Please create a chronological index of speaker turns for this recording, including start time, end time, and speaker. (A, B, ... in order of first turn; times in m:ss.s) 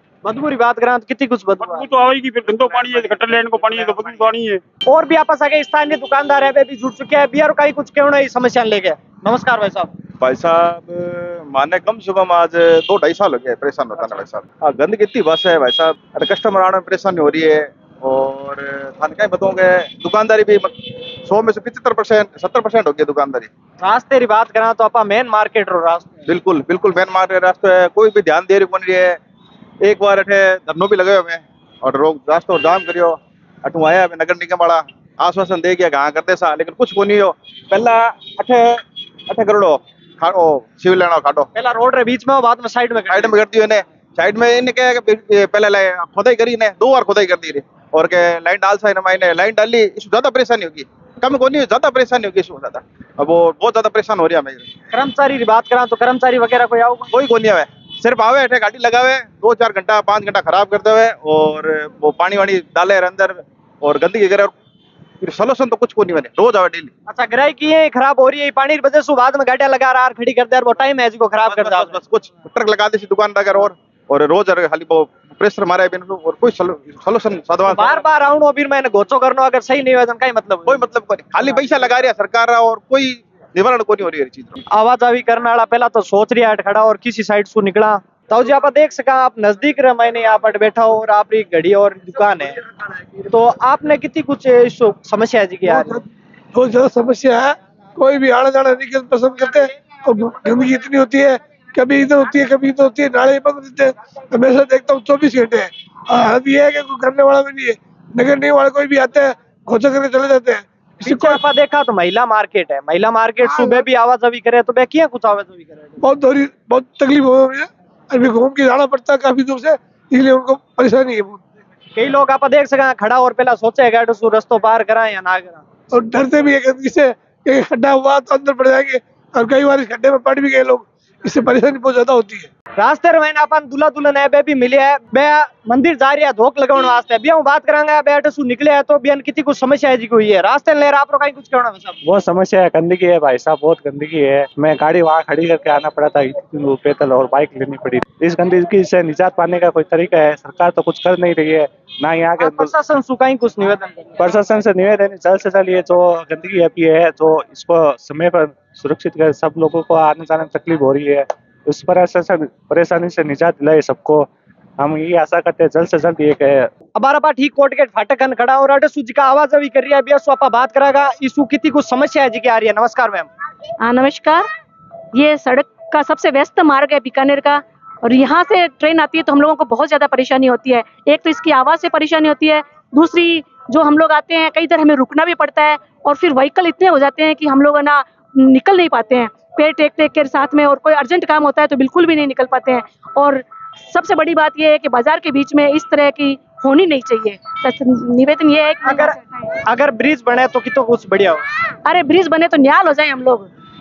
0:00.2-0:01.9 A
0:01.6-0:04.6 B
0:02.7-0:03.1 A
0:03.7-0:04.1 A
0:04.9-0:09.9 A
0:10.2-0:20.7 C
0:21.2-0:23.5 C
0:23.8-0:26.1 A
0:26.3-0:29.2 C
0:29.8-0:41.5 C
0:41.6-0:43.4 A
0:43.1-0:54.7 C
0:54.9-0:57.1 A
0:57.1-1:04.5 C
1:05.2-1:06.9 C
1:07.1-1:12.0 A
1:11.5-1:18.0 C
1:17.7-1:20.8 A
1:20.7-1:24.6 C
1:24.7-1:32.6 A
1:33.3-1:36.0 A
1:35.6-1:36.0 D
1:36.5-1:51.4 D
1:51.1-1:56.0 A
1:53.5-1:53.8 D
1:56.0-2:01.4 D
2:02.0-2:05.6 A
2:05.9-2:12.5 D
2:12.8-2:22.0 A
2:22.0-2:32.7 E
2:32.4-2:34.3 A
2:34.2-2:44.3 E
2:44.8-2:46.7 E
2:47.0-2:53.3 A
2:53.8-2:54.5 F
2:55.2-3:19.5 F
3:18.8-3:21.4 A
3:21.8-3:23.5 F